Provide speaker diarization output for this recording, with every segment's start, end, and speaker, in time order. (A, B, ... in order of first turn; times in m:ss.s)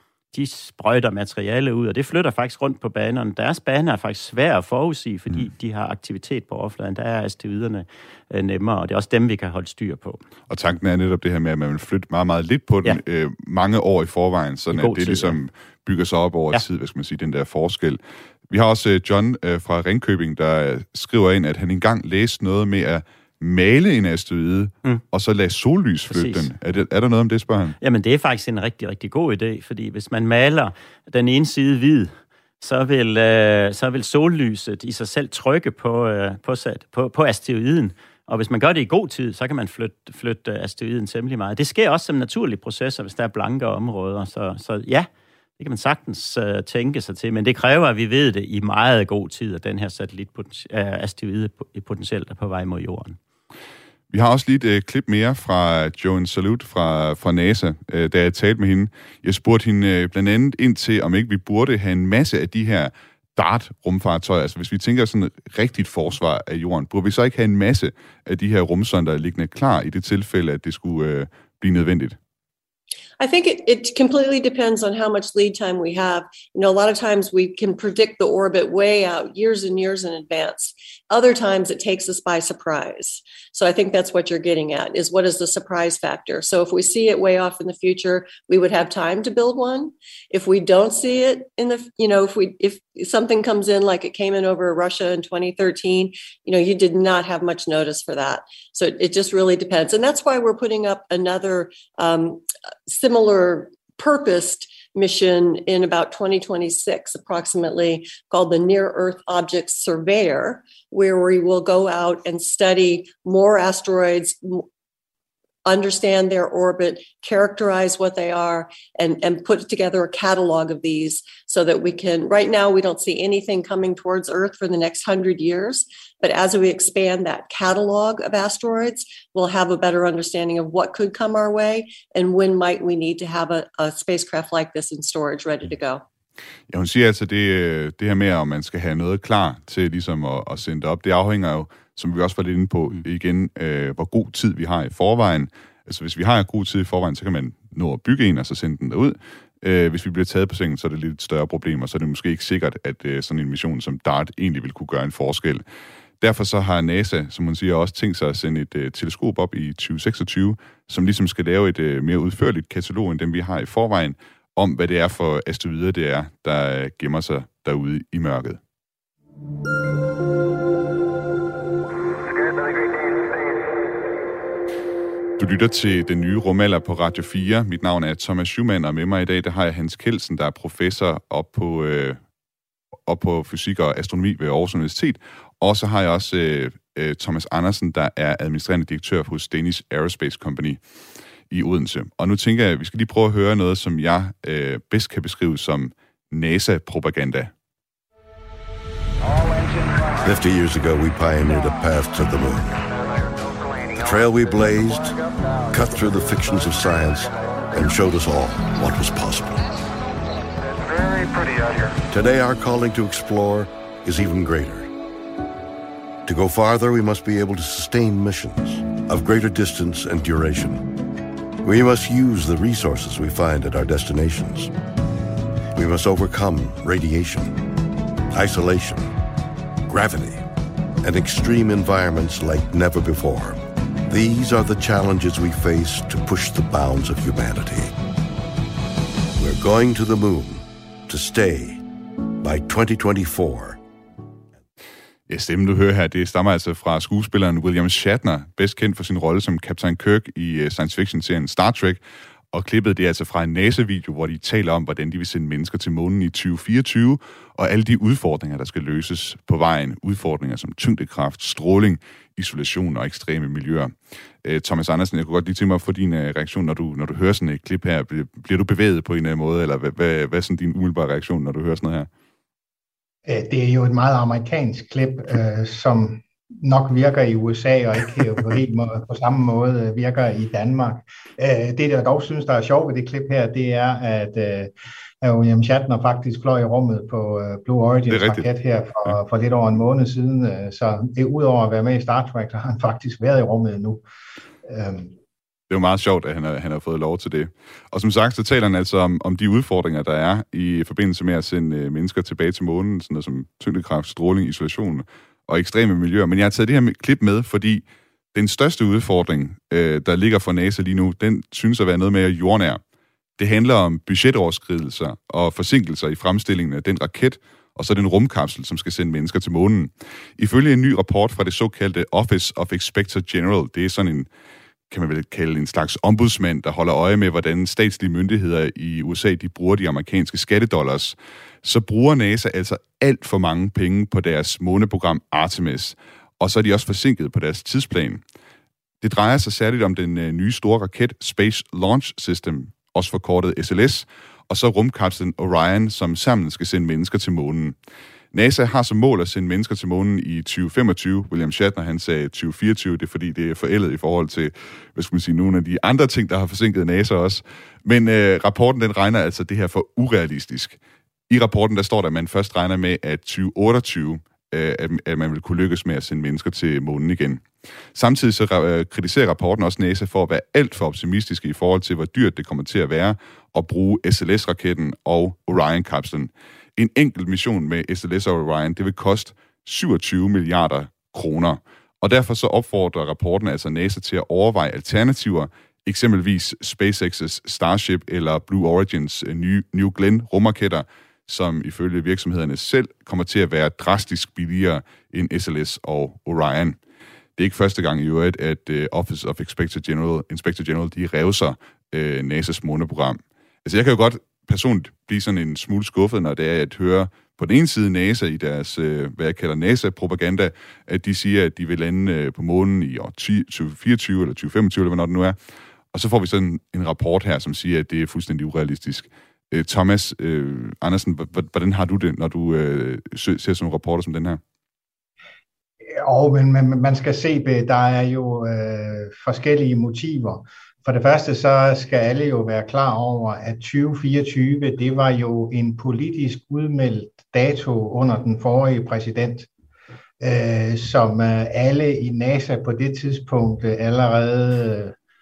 0:00.3-0:10.2 A
0:10.5-0:27.8 B
0:14.7-0:15.4 A
0:26.1-0:26.5 A
0:27.8-0:45.1 A
0:45.6-0:53.2 A
0:54.1-1:12.2 B
1:13.2-1:54.6 C
1:55.7-2:16.0 C
2:16.7-2:35.6 B
2:36.2-2:48.6 B
2:52.3-2:53.4 D
2:55.4-3:02.2 B
3:03.1-3:10.8 B
3:11.5-3:17.5 B
3:20.2-3:22.8 E
3:23.9-3:25.2 E
3:25.7-3:29.7 E
3:30.8-3:31.9 D
3:32.1-3:34.9 E
3:36.3-3:41.0 E
3:41.6-3:44.7 E
3:45.7-3:47.7 E
3:48.3-3:49.1 E
3:49.9-3:50.4 E
3:51.0-3:57.9 E
3:59.4-4:01.8 E
4:02.4-4:03.8 E
4:05.3-4:32.1 B
4:33.3-4:54.0 F
4:48.1-4:48.5 B
4:54.6-4:55.2 F
4:55.7-5:12.8 B
5:13.4-5:24.3 B
5:24.9-5:38.2 B
5:39.0-5:47.8 B
5:48.3-6:00.8 B
6:01.3-6:36.8 B
6:37.4-6:55.4 B
6:55.9-7:04.4 B
7:05.9-7:19.5 F
7:20.2-7:25.0 F